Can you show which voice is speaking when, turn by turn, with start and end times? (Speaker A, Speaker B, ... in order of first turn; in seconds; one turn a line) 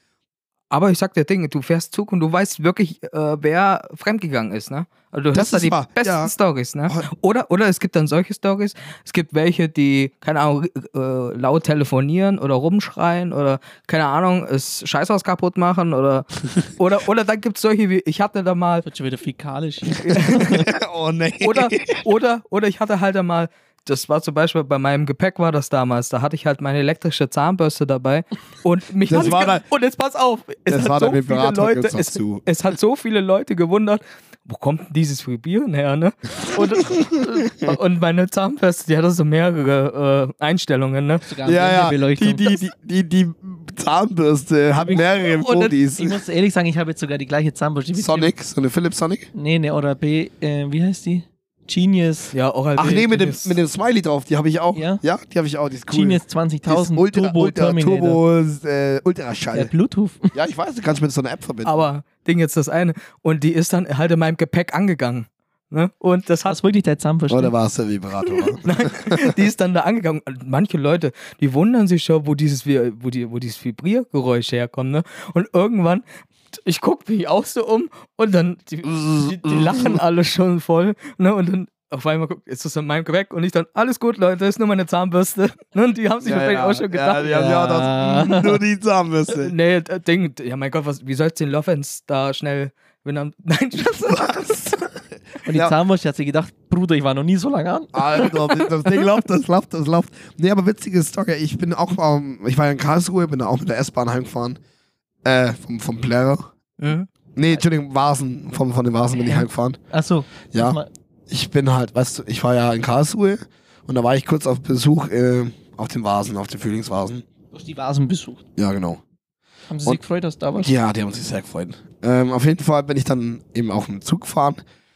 Speaker A: 0.7-18.9
Speaker B: 5.3-6.3
Speaker C: 18.8-20.5
Speaker A: 19.9-20.6
Speaker B: 20.3-22.0
Speaker A: 21.4-41.3
Speaker B: 29.1-29.6
Speaker B: 30.7-32.5
Speaker C: 41.2-42.4
Speaker B: 41.4-46.2
Speaker C: 44.9-48.3
Speaker B: 48.0-49.3
Speaker C: 49.3-52.3
Speaker A: 52.3-53.6
Speaker B: 52.8-59.7
Speaker C: 54.7-55.0
Speaker C: 55.9-58.2
Speaker C: 59.5-60.3
Speaker B: 60.3-61.8
Speaker A: 61.6-66.6
Speaker C: 66.5-67.5
Speaker B: 67.3-69.3
Speaker A: 68.6-87.6
Speaker B: 78.8-80.0
Speaker B: 86.2-89.5
Speaker C: 87.3-88.4
Speaker A: 89.4-94.4
Speaker B: 94.0-95.7
Speaker C: 95.4-97.9
Speaker B: 97.9-104.6
Speaker B: 105.2-106.4
Speaker A: 106.8-107.1
Speaker B: 107.3-109.8
Speaker C: 109.1-110.9
Speaker B: 110.5-117.2
Speaker C: 117.5-118.4
Speaker B: 118.6-119.0
Speaker C: 119.7-120.7
Speaker B: 120.6-124.6